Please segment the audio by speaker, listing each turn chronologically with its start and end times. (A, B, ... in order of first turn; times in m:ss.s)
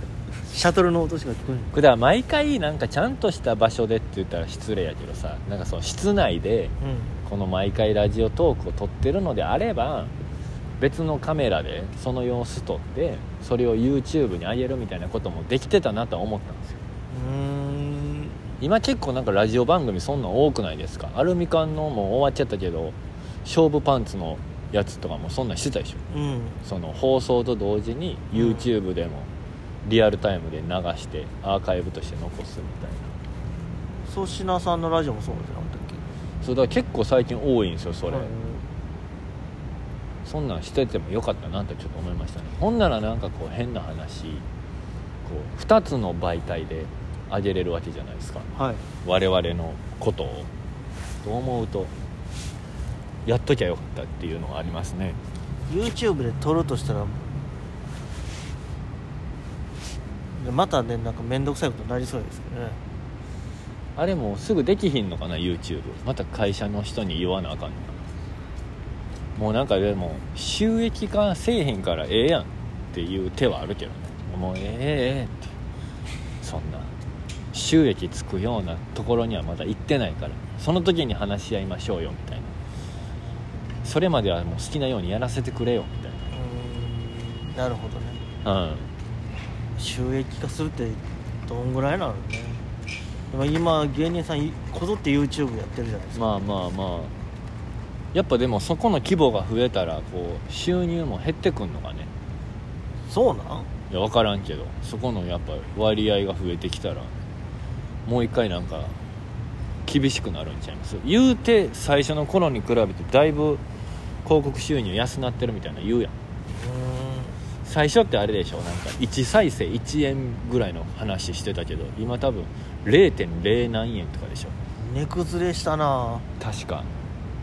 0:00.5-0:01.7 A
0:01.7-0:06.8 B
0:06.8-0:07.1 A
0:07.2-0:10.1 B
0:10.8-0:16.8 B
0:17.1-0:18.4 A
0:18.6-0:26.0 B
0:26.1-0:26.6 A
0:26.6-0:29.3 B
0:28.3-0:28.7 A
0:29.8-0:33.1 B
0:34.1-0:36.0 A
0:36.4-0:38.3 B
0:38.1-0:38.6 A
0:40.2-0:44.4 B
0:45.2-0:48.5 B
0:48.6-0:48.8 A
0:49.0-0:50.5 B
0:51.2-0:51.9 B
0:53.2-0:55.2 B
0:55.7-0:57.2 A
1:00.4-1:02.8 A
1:04.0-1:08.0 B
1:09.4-1:15.5 B
1:16.4-1:16.9 B
1:17.5-1:22.5 B
1:23.8-1:26.3 B
1:26.3-1:28.2 A
1:28.4-1:28.9 B
1:29.8-1:32.6 A
1:33.3-1:36.3 A
1:36.1-1:37.1 B
1:38.1-1:42.1 B
1:43.1-1:43.7 A
1:43.9-1:47.1 B
1:48.0-1:49.0 B
1:49.9-1:53.6 B
1:54.2-1:56.1 B
1:56.6-1:57.4 A
1:57.6-2:04.6 B
2:04.8-2:06.3 A
2:06.4-2:06.9 B